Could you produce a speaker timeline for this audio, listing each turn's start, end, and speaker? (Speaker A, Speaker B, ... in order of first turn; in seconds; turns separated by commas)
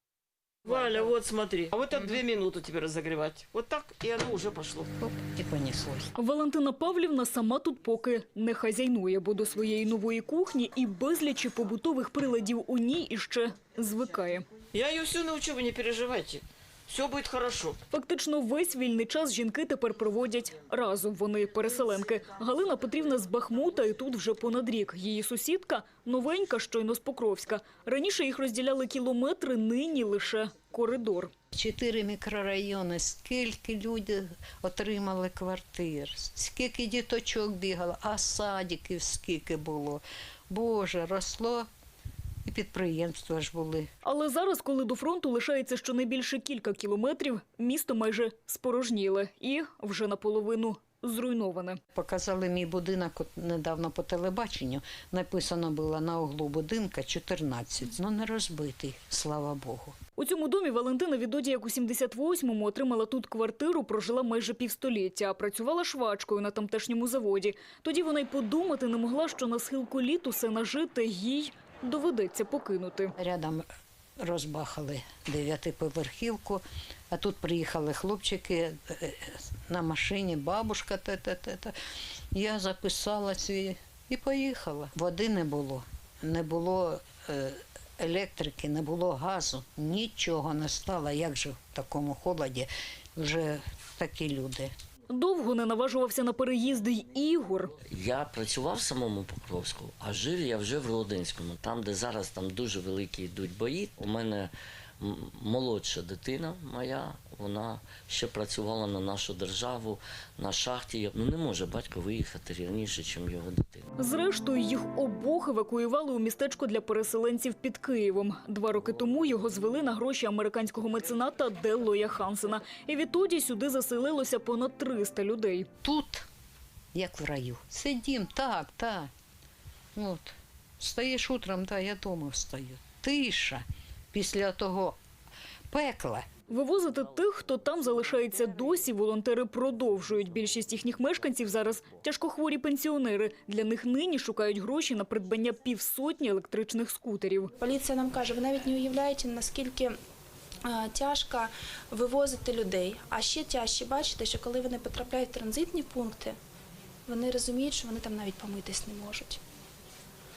Speaker A: 0.7-4.9, Speaker B: 5.0-6.1, Speaker C: 6.2-14.5, Speaker A: 14.7-17.8, Speaker C: 17.9-31.3, Speaker B: 31.5-41.7, Speaker B: 42.5-43.9, Speaker C: 44.0-51.8, Speaker B: 51.9-60.0, Speaker C: 60.2-73.1, Speaker B: 73.2-73.7, Speaker B: 74.2-81.8, Speaker B: 82.3-94.7, Speaker C: 95.1-97.7, Speaker D: 97.9-113.9, Speaker C: 114.0-125.7, Speaker B: 125.8-126.3, Speaker B: 126.9-129.1, Speaker B: 129.9-135.0, Speaker B: 135.7-136.3, Speaker C: 136.5-147.5, Speaker E: 147.6-149.9, Speaker E: 150.7-156.4, Speaker E: 157.1-159.4